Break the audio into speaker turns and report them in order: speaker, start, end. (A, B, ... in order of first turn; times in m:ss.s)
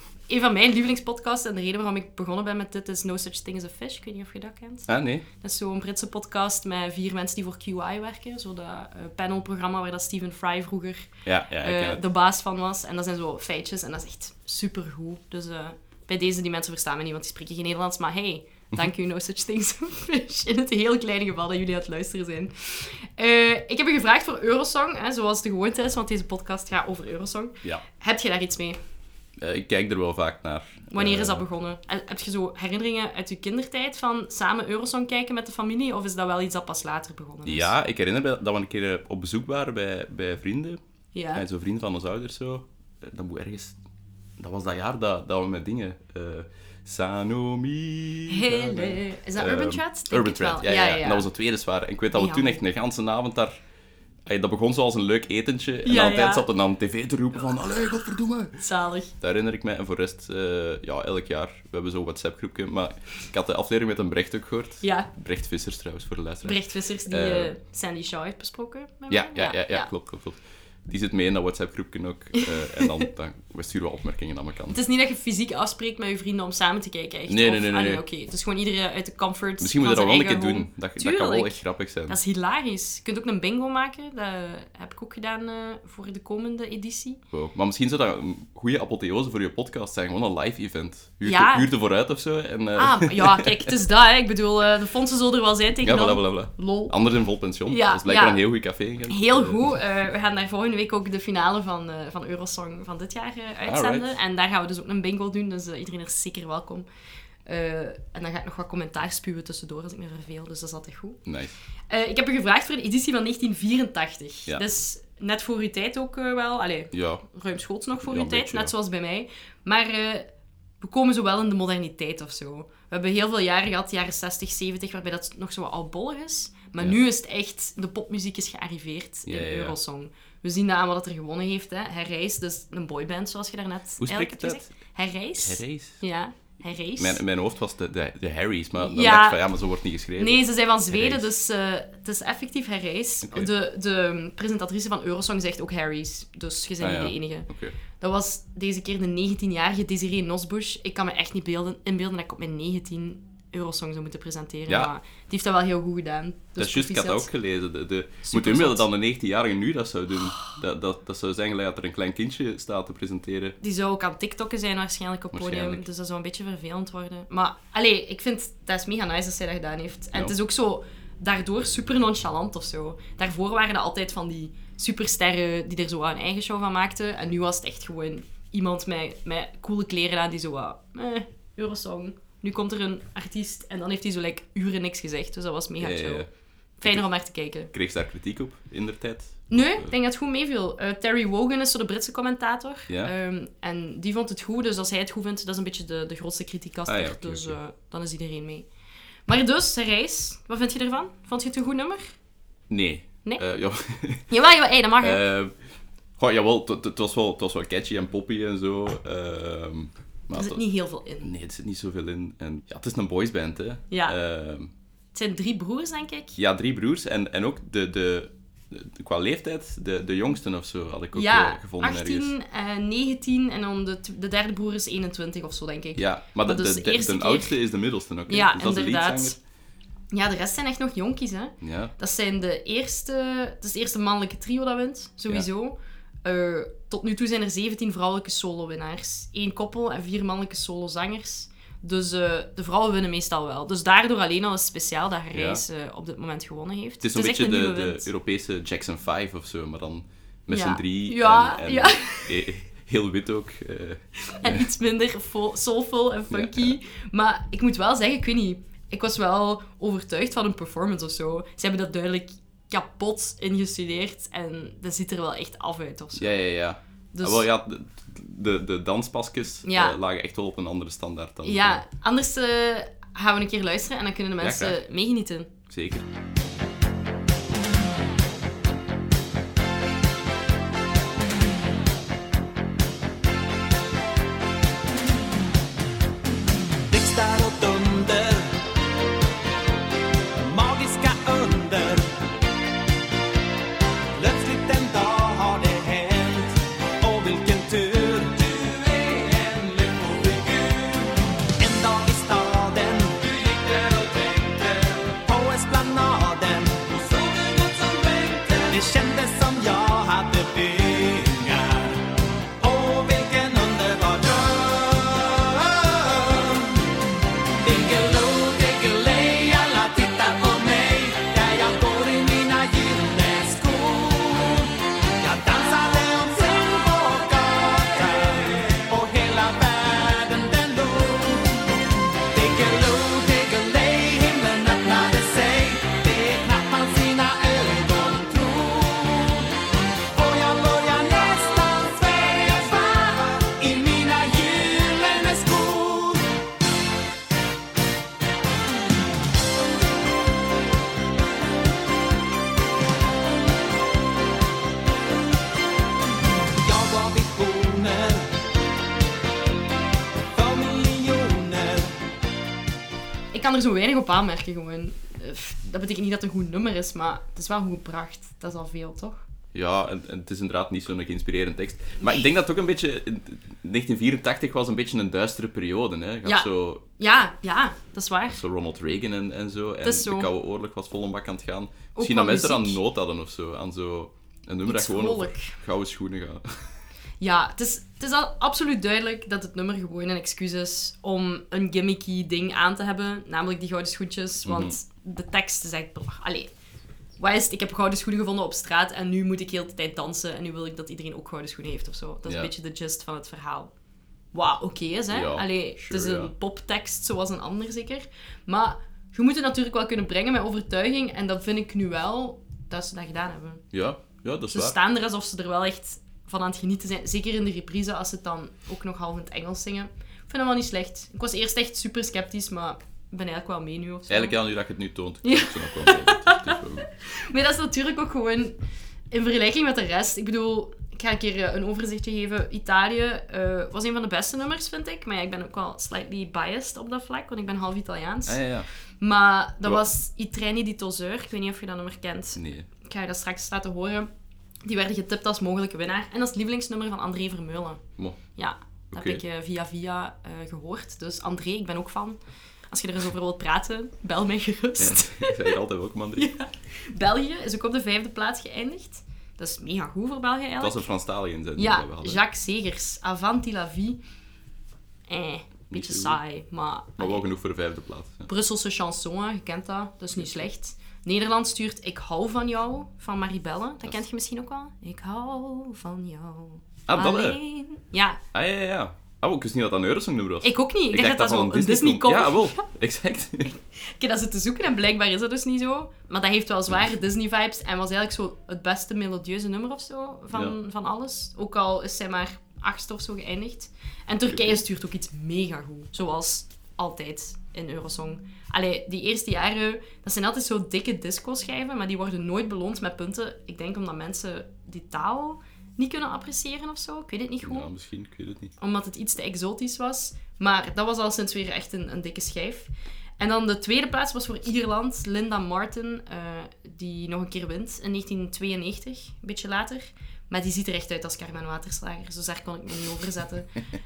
0:00.3-0:04.9 A
0:04.9-0:05.3 B
0:05.4-0:11.1 A
0:11.2-0:12.0 B
0:11.6-0:28.8 A
0:29.4-0:31.4 B
0:30.9-0:37.7 A
0:37.4-0:40.8 B
0:41.1-0:41.4 A
0:41.4-0:43.8 B
0:44.4-0:53.6 B
0:48.3-0:51.3 A
0:52.1-0:52.6 A
0:54.3-0:58.6 B
0:55.8-0:56.5 A
0:58.6-0:59.1 A
0:59.2-1:07.5 B
1:04.8-1:05.1 A
1:06.4-1:09.9 A
1:09.1-1:14.8 B
1:12.4-1:13.0 A
1:14.7-1:27.2 A
1:17.3-1:18.0 B
1:19.6-1:22.2 B
1:27.3-1:33.7 B
1:31.2-1:31.7 A
1:32.8-1:36.9 A
1:35.8-1:39.8 B
1:37.7-1:38.4 A
1:39.1-1:46.9 A
1:43.6-1:44.2 B
1:47.5-1:51.2 A
1:51.3-1:51.5 B
1:51.9-2:00.3 A
1:56.9-1:57.2 B
1:58.0-1:58.7 B
2:00.8-2:17.2 A
2:09.3-2:09.8 B
2:14.0-2:14.7 B
2:15.4-2:16.0 B
2:17.0-2:21.3 B
2:18.8-2:19.4 A
2:20.2-2:37.3 A
2:26.8-2:27.8 B
2:36.6-2:43.6 B
2:38.2-2:38.9 A
2:43.6-3:06.3 A
2:45.3-2:45.8 B
3:05.8-3:06.3 B
3:06.8-3:07.7 A
3:07.7-3:09.9 B
3:09.5-3:18.7 A
3:16.9-3:17.6 B
3:19.3-3:22.1 A
3:22.7-3:24.3 B
3:24.3-3:25.2 A
3:25.0-3:25.5 B
3:26.2-3:30.6 B
3:30.3-3:31.3 A
3:31.2-3:34.7 B
3:33.9-3:34.2 A
3:35.1-3:36.4 A
3:36.4-3:42.3 B
3:41.1-3:47.6 A
3:46.0-3:49.4 B
3:48.3-3:49.4 A
3:50.1-4:08.1 A
3:51.6-3:51.9 B
4:05.3-4:05.6 B
4:07.0-4:14.7 B
4:10.5-4:12.4 A
4:14.2-4:26.4 A
4:16.3-4:16.8 B
4:26.2-4:31.8 B
4:27.1-4:27.5 A
4:29.7-4:30.0 A
4:31.4-4:35.5 A
4:34.4-4:34.8 B
4:35.7-4:36.1 B
4:46.9-4:48.6 C
4:50.4-4:52.2 C
4:54.2-5:16.9 C
5:17.6-5:31.7 C
5:32.3-5:39.5 C
5:40.1-5:46.3 C
5:56.6-5:58.3 C
6:00.3-6:02.0 C
6:03.3-6:09.2 A
6:09.5-6:16.8 B
6:16.2-6:18.4 A
6:18.3-6:26.7 B
6:19.8-6:20.3 A
6:22.0-6:22.8 A
6:24.6-6:25.6 A
6:27.2-6:36.5 A
6:34.4-6:34.8 B
6:37.2-6:43.7 A
6:42.3-6:42.5 B
6:44.3-6:53.6 A
6:45.1-6:46.3 B
6:53.7-6:54.8 B
6:54.5-7:04.4 A
7:04.1-7:06.9 B
7:05.2-7:08.6 A
7:09.1-7:18.4 A
7:18.3-7:18.7 B
7:19.0-7:24.1 A
7:22.4-7:22.7 B
7:24.6-7:27.8 A
7:28.4-7:32.2 A
7:28.9-7:29.2 B
7:32.7-7:35.6 A
7:34.8-7:36.3 B
7:36.2-7:40.9 A
7:40.6-7:42.2 B
7:41.6-7:44.0 A
7:45.1-7:47.2 A
7:45.7-7:46.2 B
7:47.0-7:48.3 B
7:48.3-7:58.2 A
7:50.2-7:50.5 B
7:56.9-7:57.4 B
7:58.3-8:03.5 B
8:00.4-8:02.7 A
8:03.5-8:27.7 A
8:14.3-8:14.6 B
8:27.4-8:28.5 B
8:28.6-8:43.5 A